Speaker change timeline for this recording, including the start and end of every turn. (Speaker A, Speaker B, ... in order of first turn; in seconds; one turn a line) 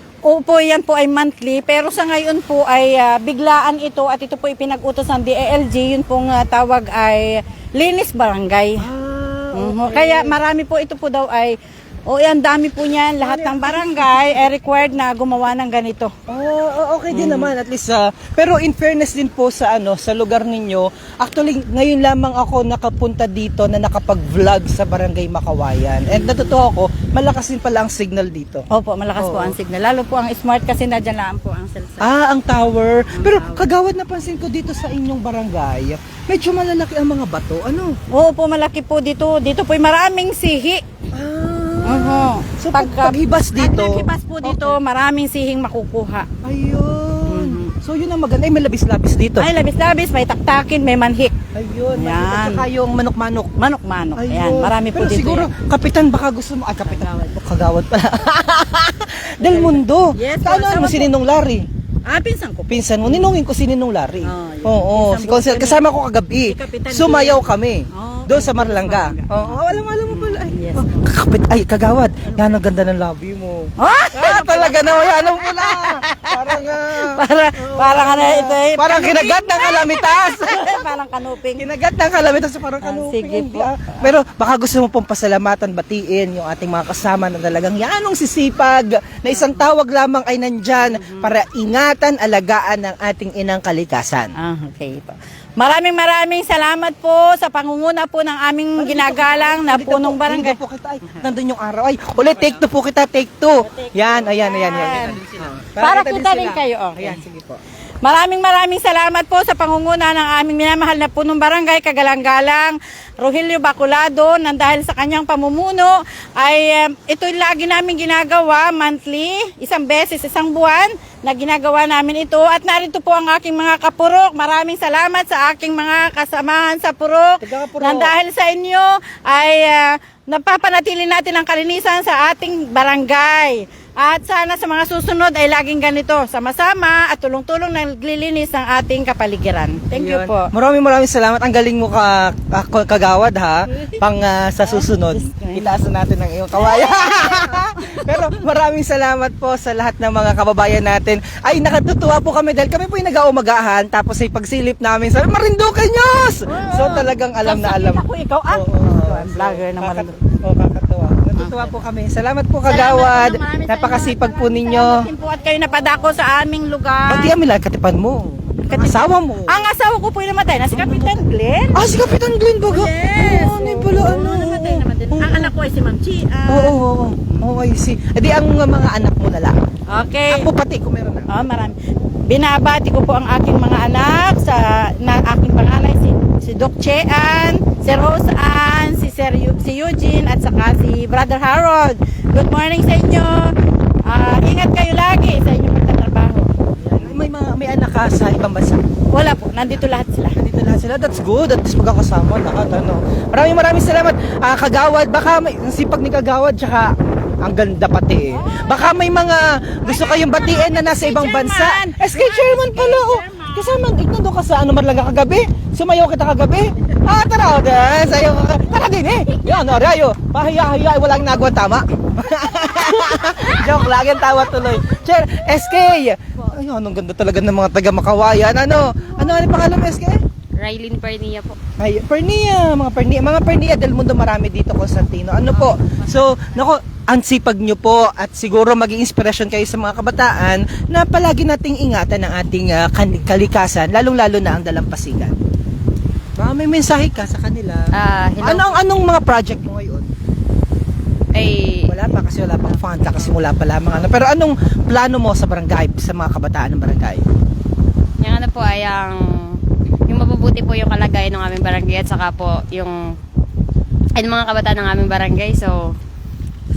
Speaker A: 0.2-8.8
Speaker B: 8.8-10.4
Speaker A: 9.5-16.1
Speaker B: 13.2-14.5
Speaker B: 16.3-29.6
Speaker A: 17.1-17.5
Speaker A: 26.1-26.6
Speaker A: 28.7-32.1
Speaker B: 32.0-38.0
Speaker A: 33.1-33.6
Speaker A: 38.1-40.8
Speaker B: 41.1-44.8
Speaker A: 41.8-46.3
Speaker B: 46.4-49.5
Speaker A: 47.3-47.7
Speaker A: 49.4-51.3
Speaker B: 51.5-53.5
Speaker A: 51.9-52.7
Speaker A: 53.6-55.5
Speaker B: 54.1-61.6
Speaker A: 56.8-57.4
Speaker A: 59.4-61.1
Speaker A: 62.0-63.3
Speaker B: 62.7-80.9
Speaker A: 64.2-65.8
Speaker A: 66.5-71.0
Speaker A: 73.8-81.7
Speaker B: 81.5-94.3
Speaker A: 82.8-83.7
Speaker A: 89.3-89.7
Speaker A: 90.8-91.3
Speaker A: 94.4-101.2
Speaker B: 98.8-107.6
Speaker A: 103.6-105.2
Speaker A: 105.8-107.2
Speaker A: 108.0-140.5
Speaker B: 127.4-128.1
Speaker B: 139.9-165.1
Speaker A: 143.7-144.0
Speaker A: 144.6-145.7
Speaker A: 146.5-148.2
Speaker A: 156.5-160.2
Speaker A: 161.4-161.7
Speaker A: 162.7-167.3
Speaker B: 167.1-169.7
Speaker A: 168.7-171.9
Speaker B: 170.7-171.2
Speaker B: 171.7-175.5
Speaker A: 172.7-176.8
Speaker B: 176.5-179.6
Speaker A: 179.9-180.5
Speaker B: 180.3-181.3
Speaker A: 181.3-181.8
Speaker A: 182.3-196.5
Speaker B: 196.8-198.8
Speaker A: 199.1-200.4
Speaker B: 200.3-206.9
Speaker B: 207.4-230.2
Speaker A: 208.3-208.8
Speaker A: 209.8-213.8
Speaker C: 230.6-231.6
Speaker B: 231.8-245.4
Speaker C: 235.5-236.7
Speaker B: 246.4-247.9
Speaker C: 247.9-248.7
Speaker B: 248.4-250.1
Speaker C: 251.3-251.9
Speaker B: 251.9-257.2
Speaker C: 258.2-263.1
Speaker C: 264.2-265.9